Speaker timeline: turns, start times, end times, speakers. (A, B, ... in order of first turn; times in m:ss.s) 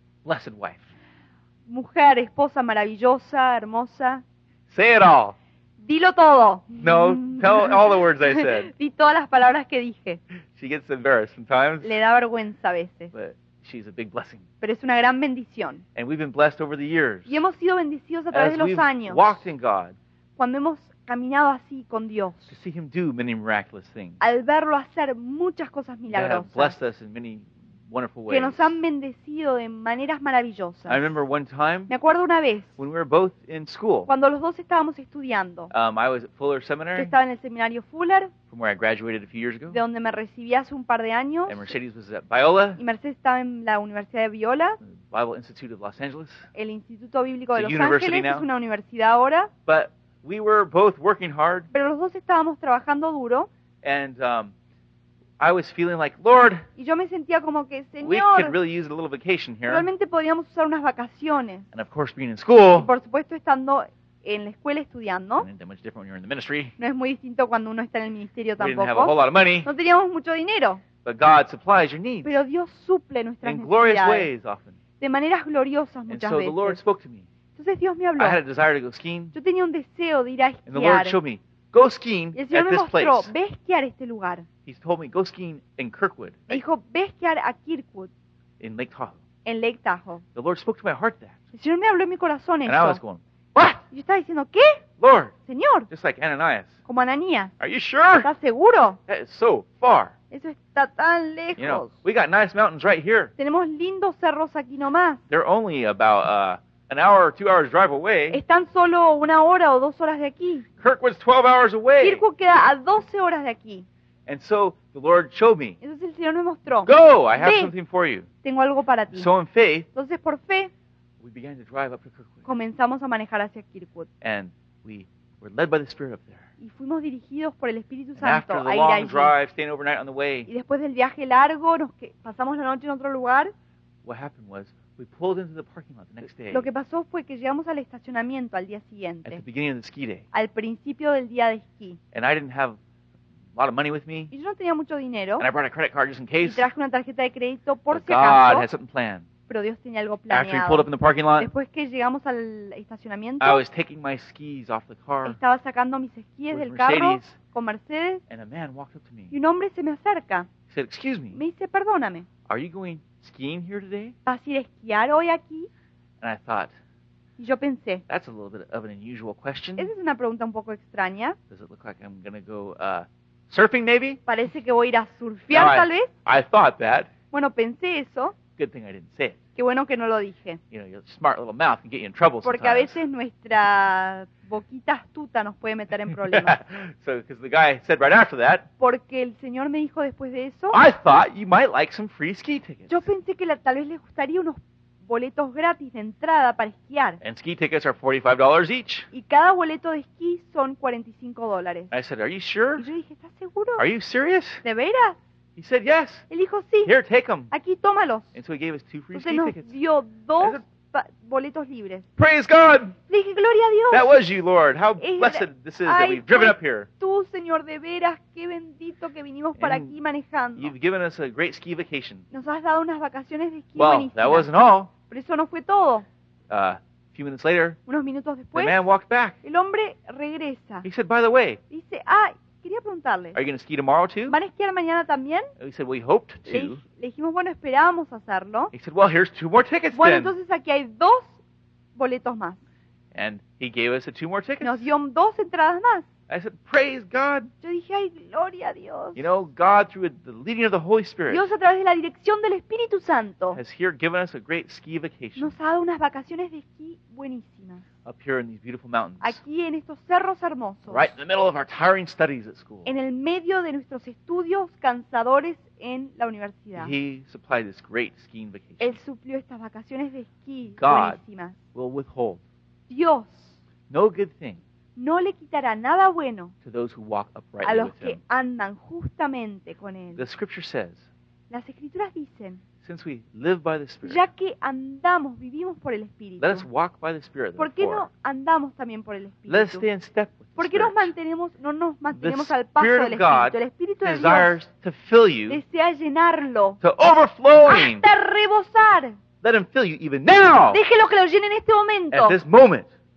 0:00.2-0:00.8 A
0:01.7-0:04.2 B
0:04.7-0:05.4 A
0:05.8-0:10.2 B
0:06.8-0:08.7 A
0:10.6-0:12.0 A
0:11.8-0:13.1 B
0:13.1-0:14.4 A
0:14.6-0:15.8 B
0:16.0-0:17.4 A
0:17.3-0:19.3 B
0:18.3-0:20.0 A
0:20.4-0:22.5 B
0:22.5-0:24.2 A
0:24.2-0:26.8 B
0:26.1-0:28.8 A
0:28.3-0:31.2 B
0:30.9-0:31.9 A
0:31.9-0:32.8 B
0:32.8-0:34.1 A
0:34.1-0:35.7 B
0:35.7-0:37.2 A
0:36.9-0:38.3 B
0:38.5-0:39.8 A
0:39.7-0:41.7 B
0:41.5-0:42.8 A
0:42.8-0:44.8 B
0:44.8-0:46.5 A
0:46.5-0:49.5 B
0:47.5-0:48.5 A
0:49.7-0:51.7 A
0:51.7-0:53.5 B
0:53.8-0:54.5 A
0:55.4-0:56.7 A
0:56.8-0:58.6 B
0:58.0-0:59.9 A
0:59.7-1:01.7 B
1:01.7-1:02.9 A
1:02.7-1:05.5 B
1:05.4-1:06.7 A
1:06.8-1:10.8 B
1:08.6-1:09.7 A
1:11.0-1:12.4 A
1:12.2-1:14.3 B
1:13.4-1:14.8 A
1:15.0-1:16.8 B
1:16.1-1:17.3 A
1:17.6-1:18.4 B
1:18.2-1:19.4 A
1:19.3-1:21.2 B
1:20.7-1:23.3 A
1:22.4-1:24.5 B
1:24.7-1:26.6 A
1:26.5-1:28.1 B
1:28.6-1:29.2 A
1:29.4-1:30.2 B
1:30.4-1:31.4 A
1:31.5-1:33.0 B
1:32.7-1:33.8 A
1:33.9-1:34.8 B
1:35.0-1:35.3 A
1:35.5-1:35.9 B
1:35.9-1:36.8 A
1:36.9-1:37.5 B
1:37.6-1:38.3 A
1:38.2-1:39.0 B
1:39.1-1:40.1 A
1:40.3-1:41.9 B
1:41.6-1:43.3 A
1:43.4-1:45.2 B
1:45.3-1:48.4 A
1:48.3-1:50.7 B
1:50.8-1:52.2 A
1:52.0-1:53.9 B
1:54.3-1:55.8 A
1:55.8-1:57.7 B
1:56.9-1:58.3 A
1:58.4-1:59.3 B
1:59.1-1:59.9 A
1:59.9-2:00.7 B
2:01.2-2:02.5 A
2:02.5-2:04.1 B
2:04.2-2:06.5 A
2:06.6-2:09.3 B
2:08.2-2:10.5 A
2:10.5-2:13.5 B
2:14.0-2:16.7 A
2:16.5-2:19.4 B
2:19.3-2:20.2 A
2:20.3-2:22.0 B
2:22.1-2:22.8 A
2:23.5-2:24.3 A
2:24.3-2:25.5 B
2:25.4-2:26.7 A
2:26.4-2:28.7 B
2:27.9-2:29.3 A
2:29.5-2:33.6 B
2:30.3-2:31.5 A
2:33.4-2:35.4 A
2:35.2-2:38.2 B
2:36.5-2:37.4 A
2:38.3-2:39.3 A
2:39.3-2:40.5 B
2:40.7-2:41.4 A
2:41.3-2:42.3 B
2:42.5-2:44.1 A
2:44.3-2:45.7 B
2:46.2-2:46.7 A
2:47.4-2:48.0 B
2:48.1-2:49.9 A
2:49.8-2:51.4 B
2:51.5-2:54.2 A
2:54.3-2:56.1 B
2:55.5-2:57.1 A
2:57.3-2:58.4 B
2:58.6-2:59.4 A
2:59.6-3:00.6 B
3:00.7-3:03.0 A
3:02.4-3:06.6 B
3:06.0-3:08.7 A
3:08.8-3:10.8 B
3:10.7-3:13.1 A
3:12.9-3:17.2 B
3:17.2-3:19.1 A
3:19.1-3:21.9 B
3:21.9-3:22.8 A
3:22.8-3:23.8 B
3:23.8-3:24.6 A
3:24.6-3:25.2 B
3:25.6-3:26.3 A
3:26.3-3:26.9 B
3:26.8-3:27.5 A
3:27.5-3:28.3 B
3:28.3-3:29.7 A
3:29.1-3:32.1 B
3:32.2-3:33.0 A
3:33.1-3:34.2 B
3:33.9-3:36.9 A
3:35.0-3:40.7 B
3:39.6-3:40.0 A
3:40.6-3:42.2 A
3:42.3-3:46.1 B
3:43.8-3:44.9 A
3:46.5-3:47.8 A
3:47.9-3:48.9 B
3:48.6-3:49.4 A
3:49.4-3:50.9 B
3:50.8-3:51.6 A
3:51.7-3:53.4 B
3:53.3-3:54.4 A
3:54.3-3:55.5 B
3:55.6-3:56.8 A
3:56.5-3:58.7 B
3:58.7-4:00.4 A
3:59.9-4:01.4 B
4:02.0-4:02.6 B
4:03.1-4:04.9 A
4:04.6-4:06.1 B
4:06.3-4:07.5 A
4:07.6-4:09.3 B
4:09.2-4:11.5 A
4:11.3-4:13.6 B
4:13.6-4:15.6 A
4:15.4-4:17.9 B
4:18.0-4:19.4 A
4:19.2-4:21.2 B
4:20.9-4:22.9 A
4:22.8-4:26.9 B
4:26.8-4:29.0 A
4:28.8-4:31.6 B
4:30.8-4:31.2 A
4:31.7-4:32.4 A
4:32.9-4:33.6 B
4:33.9-4:34.6 A
4:35.0-4:36.5 B
4:36.6-4:38.2 A
4:37.6-4:40.3 B
4:40.2-4:41.0 A
4:41.5-4:42.6 B
4:42.8-4:44.2 A
4:44.0-4:46.7 B
4:46.4-4:48.1 A
4:47.6-4:49.9 B
4:49.5-4:51.1 A
4:50.6-4:54.6 B
4:52.1-4:55.6 A
4:55.5-4:56.8 B
4:56.8-4:58.1 A
4:57.6-4:59.2 B
4:59.4-5:00.8 A
5:00.7-5:02.4 B
5:02.1-5:02.9 A